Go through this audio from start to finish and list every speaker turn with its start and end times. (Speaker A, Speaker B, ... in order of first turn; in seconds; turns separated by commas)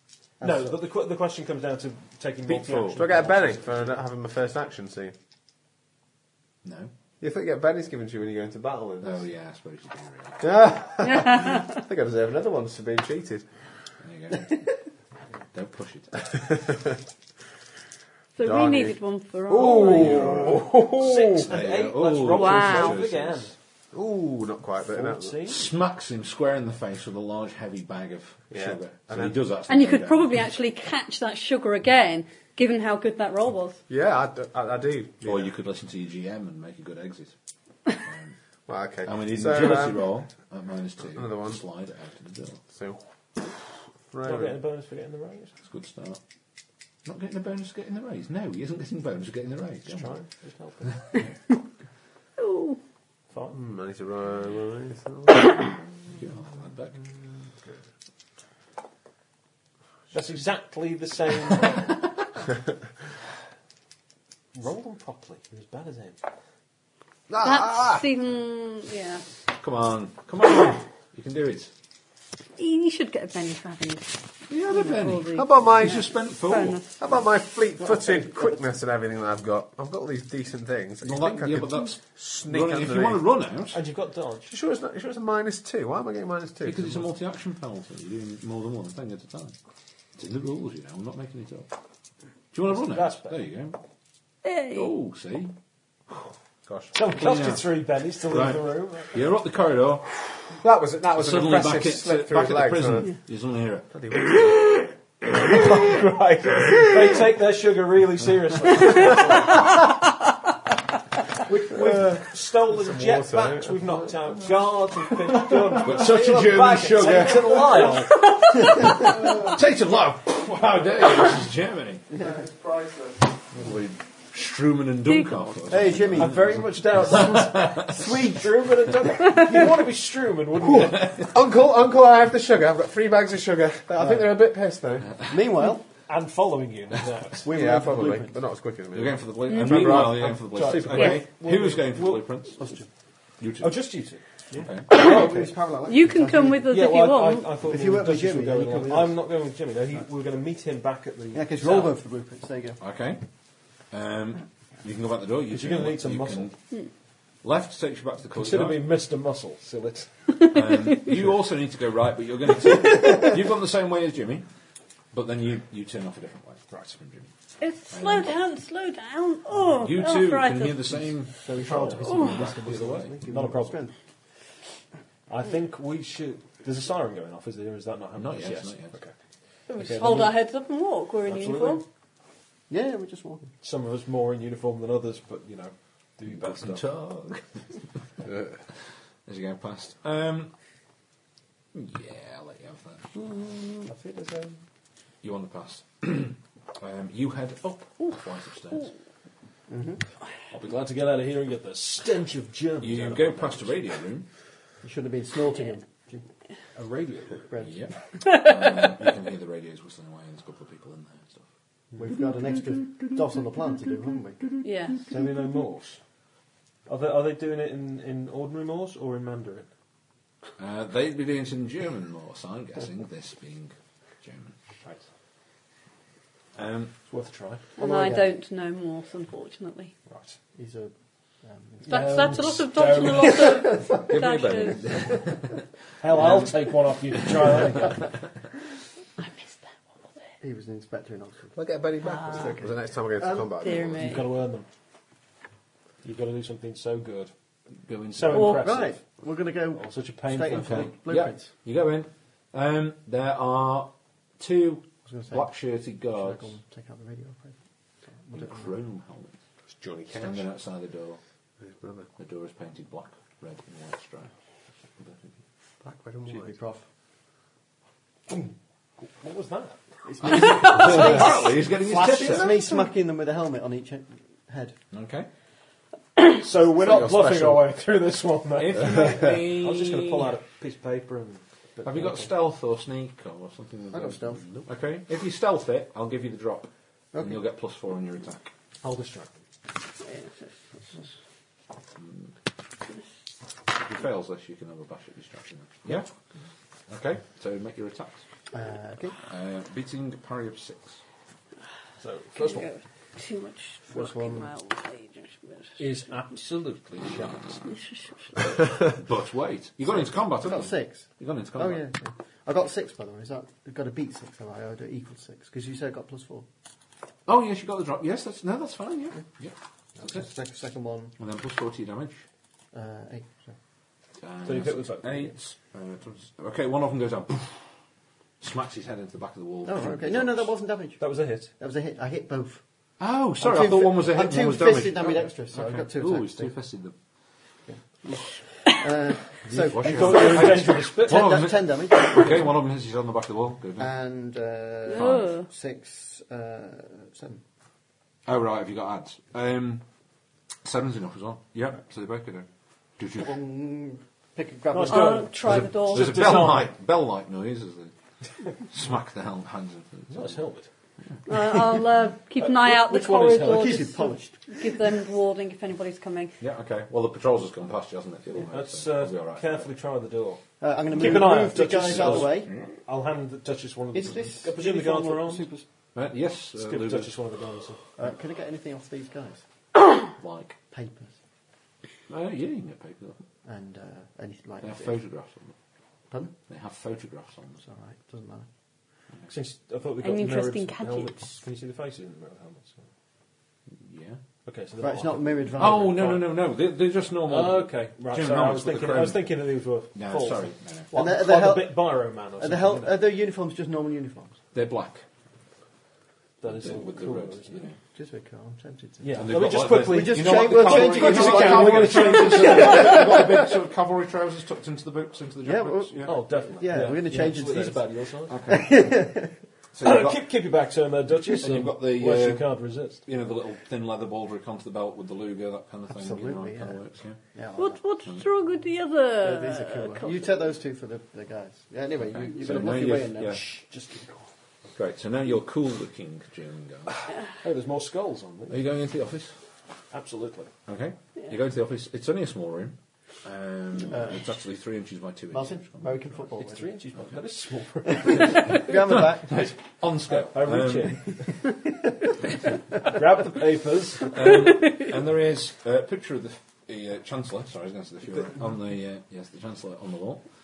Speaker A: 0.4-0.8, Speaker B: 0.4-3.9, Speaker C: 2.5-5.1, Speaker D: 6.6-6.9, Speaker C: 7.2-9.2, Speaker D: 9.0-10.5, Speaker C: 10.4-13.5, Speaker E: 11.0-11.8, Speaker D: 14.0-14.6, Speaker D: 15.5-16.4, Speaker C: 16.4-16.9, Speaker E: 18.4-20.5, Speaker C: 18.4-19.0, Speaker C: 19.5-21.5, Speaker D: 19.7-20.7, Speaker B: 20.9-23.6, Speaker D: 21.4-23.5, Speaker E: 22.3-23.0, Speaker C: 23.9-25.4, Speaker B: 24.9-25.6, Speaker D: 25.5-30.4, Speaker C: 28.5-29.4, Speaker E: 29.7-33.8, Speaker C: 33.9-35.5, Speaker D: 35.2-37.3, Speaker D: 37.9-38.3, Speaker C: 38.7-40.0, Speaker D: 39.0-42.6, Speaker C: 41.1-41.6, Speaker C: 42.7-43.0, Speaker C: 44.1-44.5, Speaker B: 44.2-45.5, Speaker D: 45.6-46.2, Speaker D: 47.0-50.1, Speaker B: 49.9-50.9, Speaker D: 50.9-51.3, Speaker E: 52.4-52.8, Speaker B: 53.3-53.6, Speaker C: 53.5-55.7, Speaker D: 56.1-57.0, Speaker B: 60.1-61.9, Speaker B: 64.5-66.2, Speaker C: 67.3-68.0, Speaker E: 67.4-69.2, Speaker D: 69.5-71.7, Speaker E: 72.6-76.9, Speaker D: 74.5-76.8, Speaker C: 75.3-76.0, Speaker C: 77.0-83.2, Speaker D: 81.0-83.8, Speaker B: 83.7-84.5, Speaker C: 84.5-87.0, Speaker D: 86.6-89.5, Speaker D: 90.2-91.7, Speaker D: 92.5-93.8, Speaker B: 92.7-93.4, Speaker E: 94.4-94.9, Speaker D: 94.7-95.5, Speaker D: 96.1-100.5, Speaker B: 96.9-99.2, Speaker C: 100.6-103.1, Speaker D: 101.2-104.4, Speaker C: 103.9-107.2, Speaker B: 106.8-109.7, Speaker B: 111.4-118.1, Speaker C: 111.7-112.1, Speaker C: 112.7-114.4, Speaker D: 115.8-118.0, Speaker E: 118.4-118.8, Speaker D: 118.6-122.0, Speaker C: 119.2-119.5, Speaker C: 122.1-123.4, Speaker D: 123.5-128.2, Speaker E: 125.0-125.4, Speaker A: 125.7-128.4, Speaker B: 126.2-131.2, Speaker D: 130.7-131.3, Speaker C: 131.1-135.1, Speaker A: 135.3-135.9, Speaker B: 136.0-137.5, Speaker A: 137.4-138.3, Speaker C: 137.4-141.2, Speaker D: 138.9-142.6, Speaker E: 139.5-139.9, Speaker B: 140.6-142.9, Speaker D: 143.4-143.8, Speaker B: 143.6-145.5, Speaker A: 144.5-146.6, Speaker D: 144.6-144.9, Speaker E: 145.9-147.5, Speaker B: 146.7-151.9, Speaker A: 147.6-149.2, Speaker A: 151.3-152.8, Speaker D: 152.8-153.2, Speaker D: 153.9-156.6, Speaker B: 155.5-156.5, Speaker D: 157.4-158.8, Speaker B: 158.3-160.4, Speaker D: 160.5-164.4, Speaker D: 165.1-167.3, Speaker B: 166.7-167.0, Speaker E: 167.6-170.9, Speaker D: 167.9-168.3, Speaker D: 169.8-173.2, Speaker A: 171.4-173.9, Speaker B: 171.7-172.0, Speaker B: 173.2-173.8, Speaker B: 175.3-179.1, Speaker D: 178.2-178.9, Speaker E: 179.7-181.8, Speaker B: 179.8-180.4, Speaker B: 181.2-181.8, Speaker A: 182.7-183.5, Speaker B: 183.6-186.8, Speaker D: 186.3-187.6, Speaker D: 189.2-190.5, Speaker D: 191.7-193.1, Speaker C: 193.9-194.5, Speaker D: 195.2-198.9, Speaker A: 199.7-200.0, Speaker B: 200.5-203.8, Speaker D: 202.8-204.3, Speaker A: 204.8-206.2, Speaker B: 206.7-207.5, Speaker A: 207.5-207.8, Speaker D: 207.6-211.4, Speaker A: 212.0-214.6, Speaker E: 214.6-215.0, Speaker B: 215.1-216.0, Speaker B: 216.9-219.7, Speaker D: 220.6-224.6, Speaker D: 226.5-226.9, Speaker B: 227.1-227.7, Speaker E: 227.8-229.9, Speaker A: 227.8-228.3, Speaker B: 230.1-230.4, Speaker A: 230.6-232.1, Speaker B: 231.8-233.6, Speaker E: 231.9-235.2, Speaker D: 234.0-236.5, Speaker B: 236.0-238.0, Speaker E: 239.2-240.0, Speaker A: 240.4-241.6, Speaker C: 241.5-244.1, Speaker A: 242.3-243.7, Speaker E: 243.6-244.2, Speaker B: 244.0-244.7, Speaker B: 246.0-247.3, Speaker D: 247.8-248.8, Speaker B: 248.1-249.0, Speaker E: 248.3-248.6, Speaker A: 248.6-251.5, Speaker B: 249.7-250.9, Speaker D: 250.6-256.5, Speaker A: 255.1-255.5, Speaker A: 256.1-257.6, Speaker A: 258.2-258.7, Speaker D: 258.3-259.4, Speaker C: 259.8-260.4, Speaker D: 260.1-261.2, Speaker C: 261.6-262.1, Speaker D: 262.2-264.3, Speaker D: 265.0-265.3, Speaker C: 265.8-266.5, Speaker A: 266.2-266.8, Speaker B: 269.0-269.8, Speaker A: 270.1-274.8, Speaker D: 270.3-272.7, Speaker E: 270.4-271.2, Speaker D: 274.9-275.3, Speaker B: 276.3-282.3, Speaker C: 276.8-277.7, Speaker D: 278.6-280.3, Speaker D: 281.8-288.5, Speaker A: 283.9-284.6, Speaker A: 287.1-287.4, Speaker B: 288.8-289.4, Speaker E: 290.0-291.0, Speaker D: 292.0-292.3, Speaker D: 293.7-296.1, Speaker D: 296.9-298.2, Speaker A: 298.5-299.2, Speaker D: 299.2-301.0, Speaker B: 302.0-302.7, Speaker E: 302.3-305.8, Speaker A: 303.9-304.5, Speaker B: 305.8-307.7, Speaker D: 307.0-307.6, Speaker E: 307.7-308.6, Speaker D: 308.9-311.9, Speaker A: 309.9-316.4, Speaker D: 317.2-320.3, Speaker A: 320.0-321.1, Speaker D: 321.2-322.2, Speaker A: 322.7-323.5, Speaker D: 324.2-327.6, Speaker B: 324.4-325.3, Speaker D: 328.4-330.5, Speaker A: 329.6-332.6, Speaker B: 331.0-331.5, Speaker D: 333.0-336.9, Speaker A: 333.4-336.5, Speaker A: 337.7-342.5, Speaker D: 339.4-343.9, Speaker B: 339.6-341.4, Speaker A: 343.8-347.4, Speaker E: 344.9-345.5, Speaker D: 344.9-345.3, Speaker D: 348.2-349.8, Speaker D: 350.6-352.5, Speaker D: 353.0-353.3, Speaker A: 353.2-355.3, Speaker B: 354.7-356.7, Speaker E: 354.9-356.5, Speaker D: 355.4-357.9, Speaker D: 358.6-360.4, Speaker B: 360.1-360.7, Speaker E: 361.3-366.4, Speaker B: 362.4-363.9, Speaker A: 363.4-364.6, Speaker D: 366.4-369.6, Speaker B: 368.5-375.5, Speaker A: 370.6-372.5, Speaker D: 370.9-372.7, Speaker A: 373.9-375.6, Speaker D: 375.9-377.2, Speaker B: 376.6-377.8, Speaker A: 378.0-379.4, Speaker D: 380.2-380.6, Speaker A: 380.7-381.1, Speaker D: 382.1-383.2, Speaker A: 383.4-385.0, Speaker D: 384.6-385.5, Speaker A: 386.1-386.3, Speaker D: 386.5-387.6, Speaker A: 387.6-388.5, Speaker B: 389.3-392.9, Speaker E: 390.0-391.4, Speaker D: 393.8-394.2, Speaker B: 394.4-396.2, Speaker A: 394.8-396.2, Speaker D: 395.6-399.4, Speaker B: 397.2-403.0, Speaker D: 399.9-400.9, Speaker A: 400.9-404.4, Speaker D: 404.5-405.0, Speaker B: 406.4-407.7, Speaker D: 406.4-407.8, Speaker A: 407.9-413.5, Speaker B: 409.0-412.9, Speaker D: 409.1-416.8, Speaker A: 415.4-417.9, Speaker B: 416.0-418.4, Speaker D: 418.3-418.9, Speaker A: 418.5-419.4, Speaker D: 419.7-420.3, Speaker B: 419.8-423.0, Speaker D: 421.2-427.2, Speaker A: 425.9-426.8, Speaker A: 427.3-427.8, Speaker E: 427.6-430.4, Speaker A: 429.2-433.5, Speaker D: 432.0-433.4, Speaker B: 433.3-434.2, Speaker D: 434.7-437.0, Speaker B: 437.4-438.6, Speaker D: 438.5-439.3, Speaker B: 439.9-440.5, Speaker D: 440.7-446.2, Speaker A: 443.9-444.3, Speaker A: 445.3-446.7, Speaker B: 446.4-448.4, Speaker A: 448.0-449.5, Speaker D: 448.3-451.1, Speaker B: 450.1-451.3, Speaker B: 452.8-454.1, Speaker D: 454.1-460.2